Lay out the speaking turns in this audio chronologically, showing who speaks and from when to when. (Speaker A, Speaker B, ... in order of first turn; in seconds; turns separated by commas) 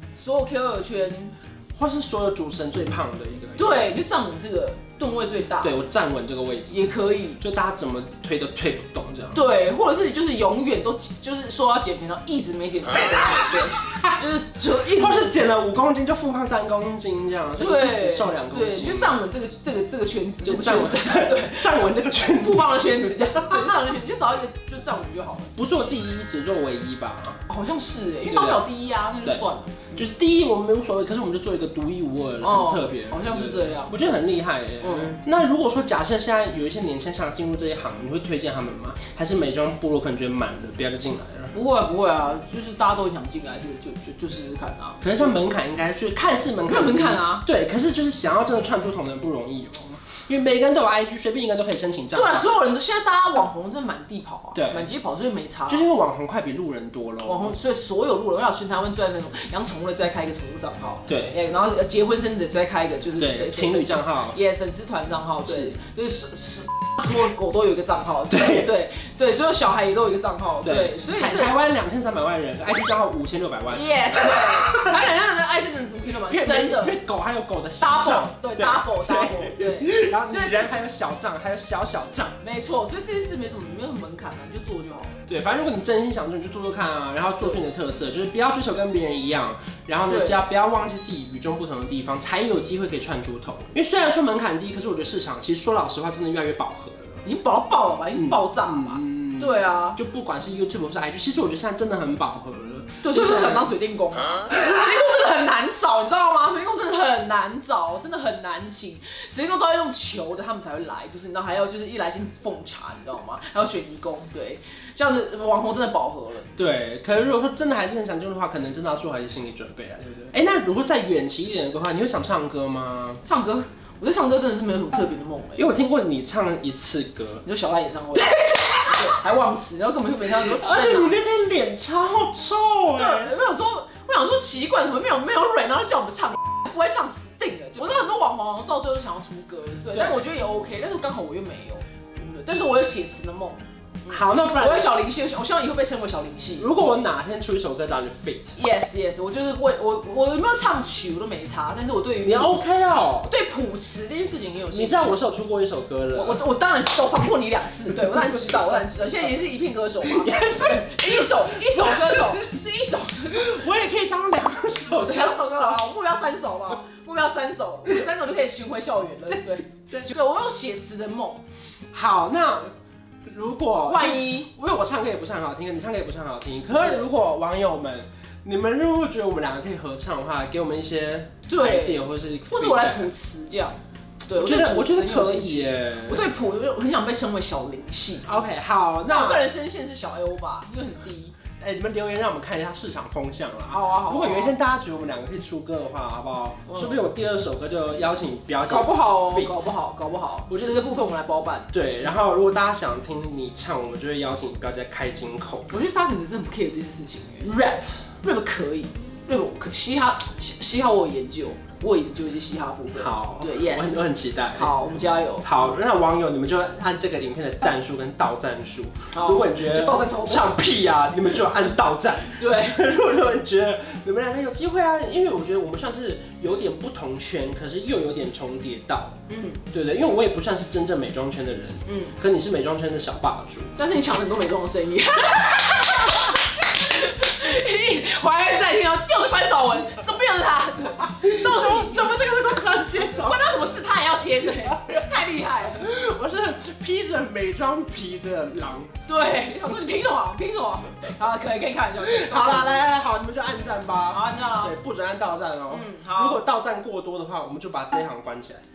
Speaker A: 0.1-1.4, Speaker B: 1.8-3.9, Speaker A: 3.6-5.8, Speaker B: 5.6-9.4, Speaker A: 6.7-7.4, Speaker A: 9.3-15.5, Speaker B: 13.8-14.2, Speaker B: 14.8-19.2, Speaker A: 17.6-21.7, Speaker B: 20.4-23.8, Speaker A: 22.3-25.5, Speaker B: 25.6-27.4, Speaker A: 27.5-30.0, Speaker B: 28.3-28.7, Speaker B: 29.2-41.5, Speaker A: 32.4-34.1, Speaker A: 34.8-35.2, Speaker A: 41.5-45.4, Speaker B: 45.0-52.5, Speaker A: 46.7-47.5, Speaker A: 52.1-55.9, Speaker B: 54.5-54.9, Speaker B: 55.7-57.6, Speaker A: 57.2-71.6, Speaker B: 61.1-61.4, Speaker B: 63.2-64.4, Speaker B: 65.5-65.8, Speaker B: 68.3-68.7, Speaker B: 70.6-75.0, Speaker A: 73.7-76.9, Speaker B: 76.1-82.4, Speaker A: 77.8-80.7, Speaker A: 82.4-85.2, Speaker B: 85.3-97.2, Speaker A: 90.1-90.4, Speaker A: 97.2-100.0, Speaker B: 98.2-103.7, Speaker A: 103.0-116.5, Speaker B: 116.6-123.2, Speaker A: 123.2-125.7, Speaker B: 125.6-127.5, Speaker A: 127.5-131.2, Speaker B: 128.2-129.0, Speaker B: 130.4-133.3, Speaker A: 132.9-146.7, Speaker B: 139.9-140.2, Speaker B: 144.1-144.9, Speaker B: 146.6-148.6, Speaker A: 148.6-152.6, Speaker B: 152.2-153.3, Speaker A: 153.2-155.2, Speaker B: 154.7-156.4, Speaker A: 156.1-163.6, Speaker B: 158.0-158.6, Speaker B: 160.0-162.6, Speaker B: 163.3-165.8, Speaker A: 165.0-171.4, Speaker B: 169.3-170.1, Speaker B: 171.9-172.7, Speaker B: 173.3-183.1, Speaker A: 173.9-174.5, Speaker A: 176.7-177.0, Speaker A: 181.5-188.3, Speaker B: 184.3-186.3, Speaker B: 188.2-189.5, Speaker A: 189.1-191.4, Speaker B: 191.6-199.7, Speaker A: 193.7-194.6, Speaker A: 196.7-197.0, Speaker A: 198.7-201.7, Speaker B: 200.5-200.8, Speaker B: 201.7-205.8, Speaker A: 205.7-207.5, Speaker B: 207.4-208.0, Speaker A: 208.2-215.5, Speaker B: 212.9-229.2, Speaker A: 219.1-220.6, Speaker A: 222.4-222.8, Speaker A: 229.3-229.6, Speaker B: 229.7-233.7, Speaker A: 231.9-232.2, Speaker A: 233.8-245.9, Speaker B: 241.0-243.7, Speaker B: 244.6-245.1, Speaker B: 245.6-248.9, Speaker A: 249.1-252.9, Speaker B: 252.0-258.6, Speaker A: 254.1-254.7, Speaker A: 255.7-256.4